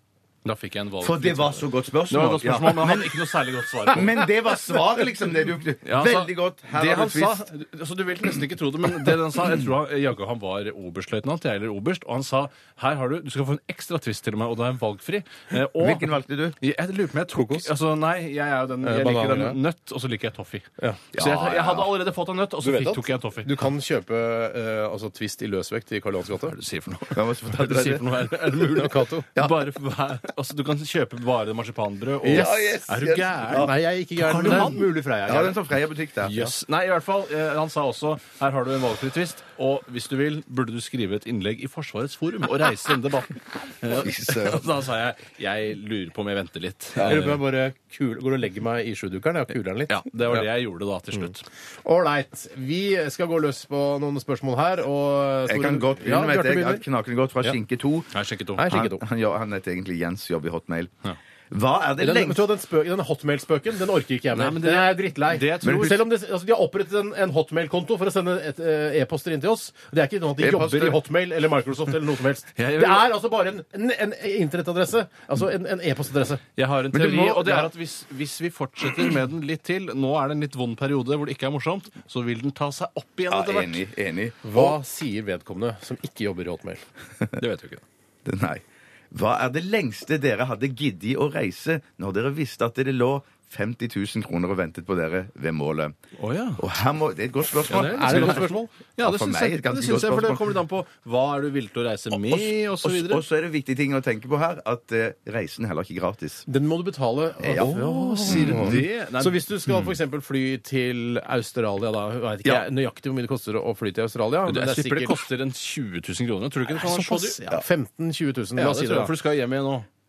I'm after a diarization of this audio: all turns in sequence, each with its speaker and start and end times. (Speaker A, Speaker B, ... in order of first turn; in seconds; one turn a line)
Speaker A: 0.4-4.2
Speaker B: 1.0-3.2
Speaker B: 3.9-7.5
Speaker A: 5.8-23.5
Speaker B: 15.8-16.6
Speaker C: 17.3-17.7
Speaker C: 18.8-19.6
Speaker B: 21.1-21.9
Speaker C: 22.6-26.6
Speaker A: 26.5-32.6
Speaker B: 27.1-28.3
Speaker C: 28.7-29.3
Speaker C: 32.2-35.6
Speaker B: 32.2-33.7
Speaker A: 34.2-34.8
Speaker B: 34.4-36.5
Speaker A: 36.2-47.4
Speaker B: 43.9-44.6
Speaker B: 47.0-47.3
Speaker C: 47.0-50.4
Speaker A: 49.9-51.4
Speaker C: 51.8-56.9
Speaker B: 55.5-58.1
Speaker A: 58.1-58.7
Speaker C: 58.5-59.0
Speaker B: 58.7-60.9
Speaker B: 61.5-62.4
Speaker C: 62.0-76.4
Speaker A: 64.3-66.0
Speaker B: 65.6-65.9
Speaker B: 70.4-71.0
Speaker A: 72.6-73.1
Speaker A: 76.5-83.8
Speaker B: 76.9-77.7
Speaker B: 83.3-84.8
Speaker C: 84.4-86.8
Speaker A: 87.4-87.8
Speaker B: 88.2-96.0
Speaker A: 96.2-96.6
Speaker B: 96.6-100.5
Speaker A: 97.7-103.2
Speaker C: 97.7-98.7
Speaker B: 102.1-106.5
Speaker C: 106.5-115.2
Speaker B: 107.4-107.7
Speaker A: 107.5-109.4
Speaker B: 108.2-108.8
Speaker A: 114.5-117.4
Speaker C: 116.7-119.1
Speaker A: 118.6-119.9